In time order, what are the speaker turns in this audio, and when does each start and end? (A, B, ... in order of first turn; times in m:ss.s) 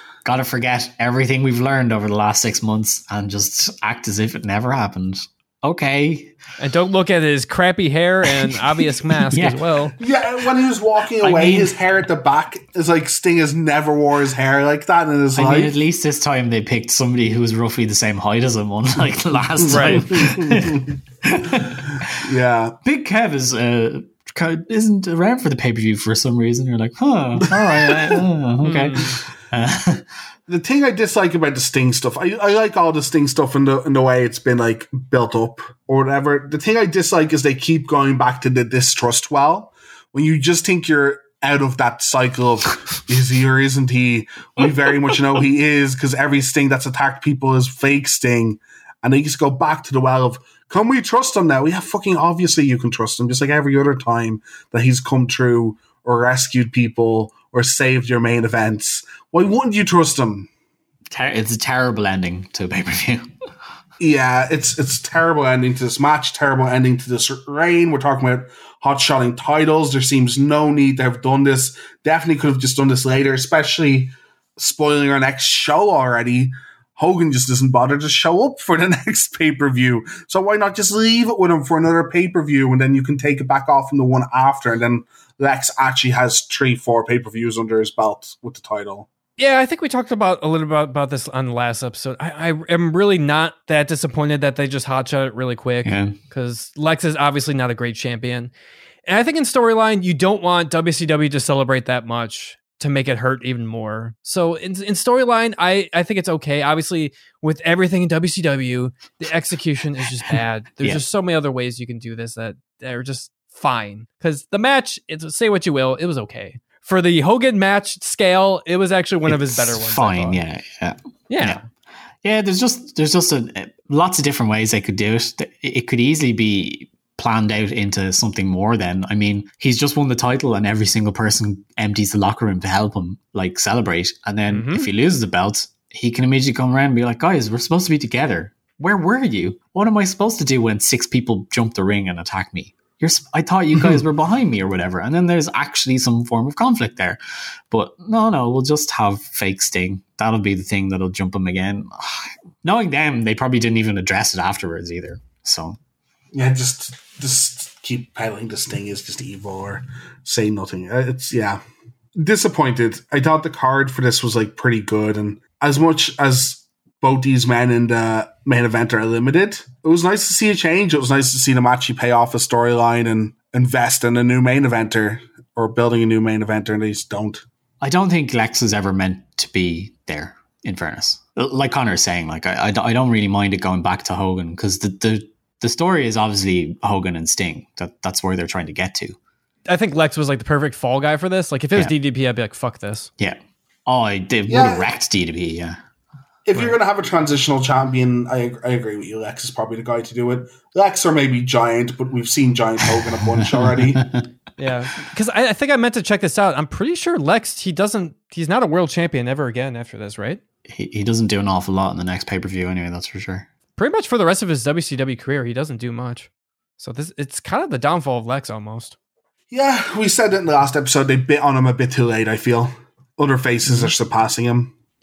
0:00.2-0:06.3 A
0:06.6-0:09.9 B
0:09.1-0:09.7 A
0:10.0-0:15.7 C
0:11.2-0:11.8 A
0:15.3-0:22.3 A
0:19.7-0:20.1 B
0:19.8-0:20.9 C
0:22.2-0:22.8 C
0:22.8-0:30.0 A
0:27.4-0:28.2 C
0:28.6-0:29.2 B
0:30.5-1:00.5 C
1:01.1-1:03.3 A
1:04.0-1:29.1 C
1:29.4-1:38.5 B
1:35.8-1:36.2 A
1:39.0-2:00.4 B
1:59.3-2:01.6 A
2:01.3-2:01.6 B
2:02.2-2:27.2 A
2:14.5-2:14.9 B
2:27.7-2:35.8 A
2:36.3-2:41.6 C
2:42.1-2:57.4 C
2:57.8-3:09.2 A
3:09.7-3:13.1 B
3:13.2-3:15.8 A
3:14.5-3:14.8 C
3:16.4-3:24.0 C
3:23.4-3:24.2 A
3:24.6-3:30.4 B
3:30.7-3:33.5 A
3:33.8-3:38.9 B
3:39.5-3:44.7 C